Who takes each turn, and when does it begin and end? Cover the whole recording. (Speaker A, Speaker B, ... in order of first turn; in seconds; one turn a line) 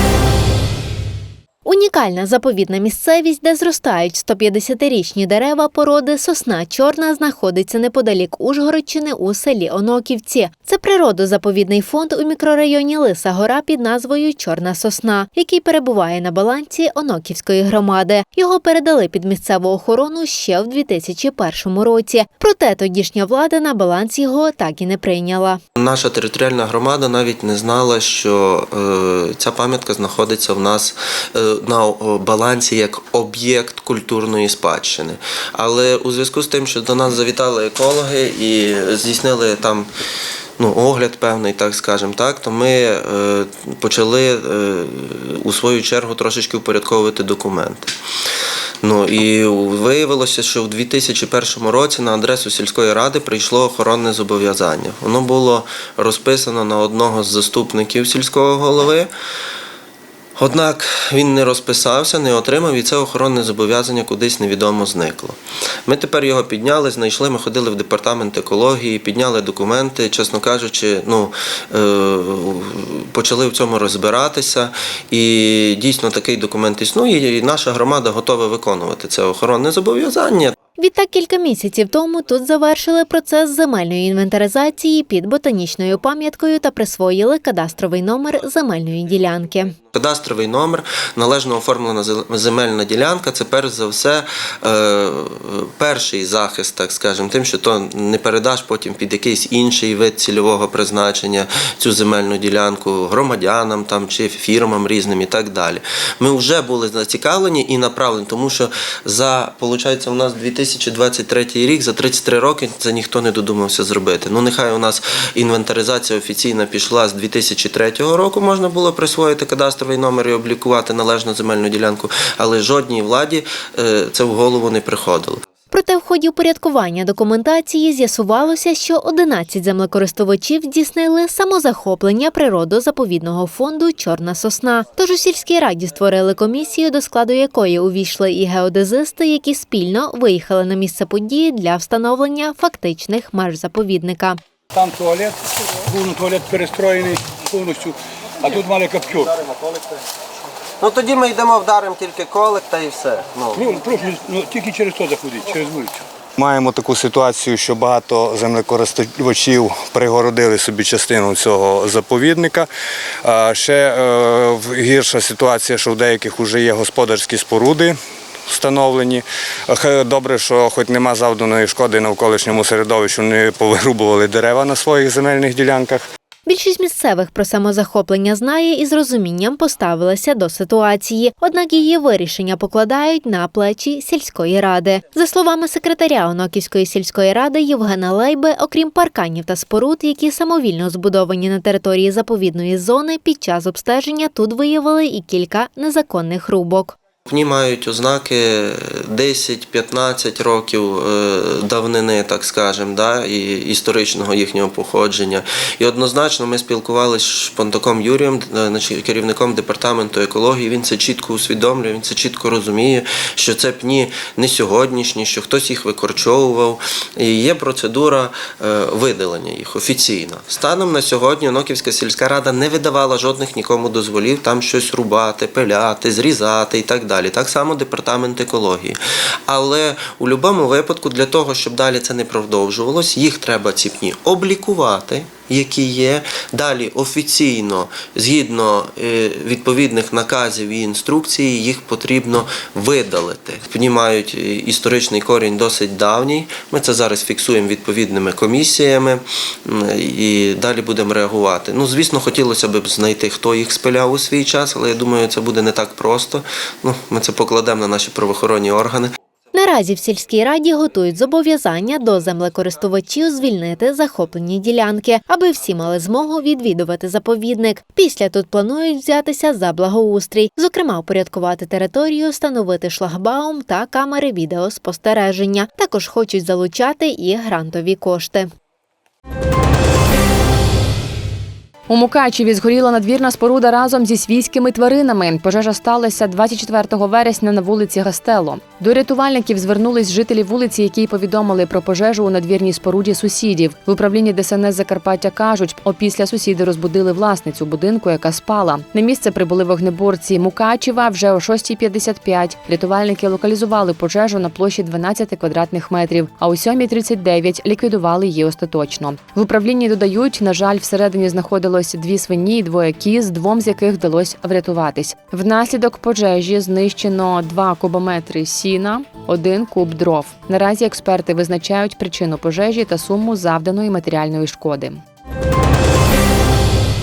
Speaker A: 1.6-25.6
Speaker B: 25.8-39.9
Speaker B: 40.6-47.9
Speaker B: 48.8-59.1
Speaker B: 60.4-80.6
Speaker A: 80.8-89.7
Speaker B: 89.9-125.4
Speaker A: 125.7-144.4
Speaker C: 144.7-149.5
Speaker B: 150.8-153.7
Speaker C: 153.6-156.0
Speaker D: 156.4-162.7
Speaker D: 163.2-176.0
Speaker A: 176.5-196.9
Speaker B: 197.3-229.0
Speaker B: 229.5-259.1
Speaker A: 259.5-278.5
Speaker E: 281.9-325.0